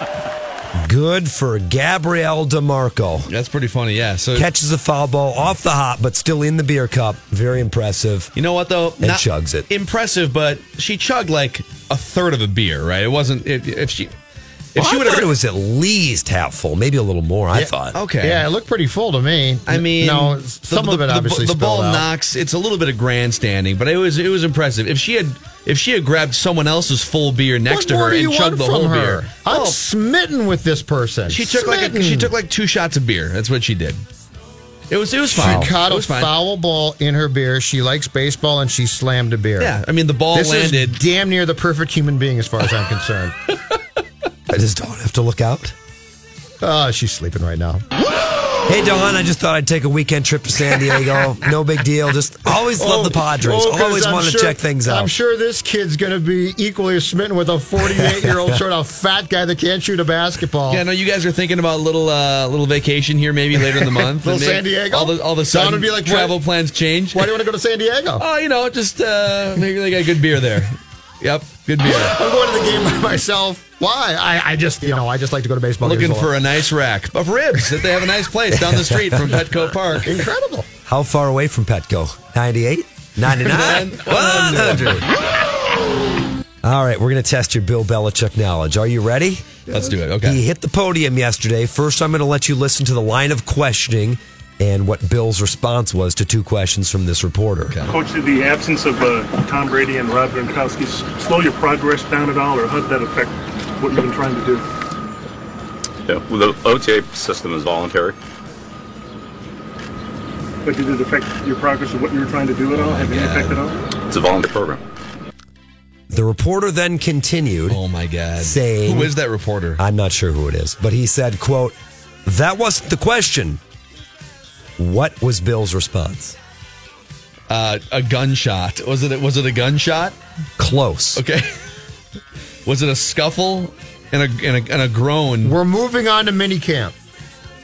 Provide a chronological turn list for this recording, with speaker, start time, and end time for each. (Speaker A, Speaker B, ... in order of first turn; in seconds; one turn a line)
Speaker A: 0.7-3.3
Speaker B: 3.3-4.5
Speaker A: 4.3-8.3
Speaker B: 8.4-14.1
Speaker A: 9.0-9.7
Speaker B: 14.8-15.3
Speaker A: 14.8-18.0
Speaker C: 17.5-22.1
Speaker B: 17.9-18.4
Speaker B: 19.7-29.8
Speaker C: 27.7-32.3
Speaker B: 31.3-34.0
Speaker B: 34.9-36.3
Speaker C: 35.3-39.8
Speaker B: 39.6-41.0
Speaker C: 40.3-43.4
Speaker A: 44.5-45.8
Speaker C: 46.6-47.8
Speaker A: 48.6-55.1
Speaker C: 52.8-60.8
Speaker A: 58.0-58.5
Speaker B: 60.7-67.3
Speaker C: 63.6-66.3
Speaker C: 67.1-68.2
Speaker B: 68.2-72.1
Speaker C: 71.8-76.3
Speaker B: 75.8-80.1
Speaker A: 78.5-79.4
Speaker C: 80.1-80.7
Speaker A: 80.9-85.0
Speaker B: 83.5-85.1
Speaker A: 86.6-97.8
Speaker B: 89.7-90.4
Speaker D: 97.9-104.6
Speaker E: 106.1-108.2
Speaker D: 110.6-113.8
Speaker B: 112.7-113.6
Speaker E: 114.1-114.8
Speaker A: 116.1-117.8
Speaker B: 117.7-119.8
Speaker A: 118.4-119.1
Speaker A: 119.8-123.6
Speaker A: 124.8-126.4
Speaker B: 127.5-130.2
Speaker A: 130.6-131.2
Speaker B: 131.2-131.5
Speaker B: 132.7-135.6
Speaker C: 135.4-136.9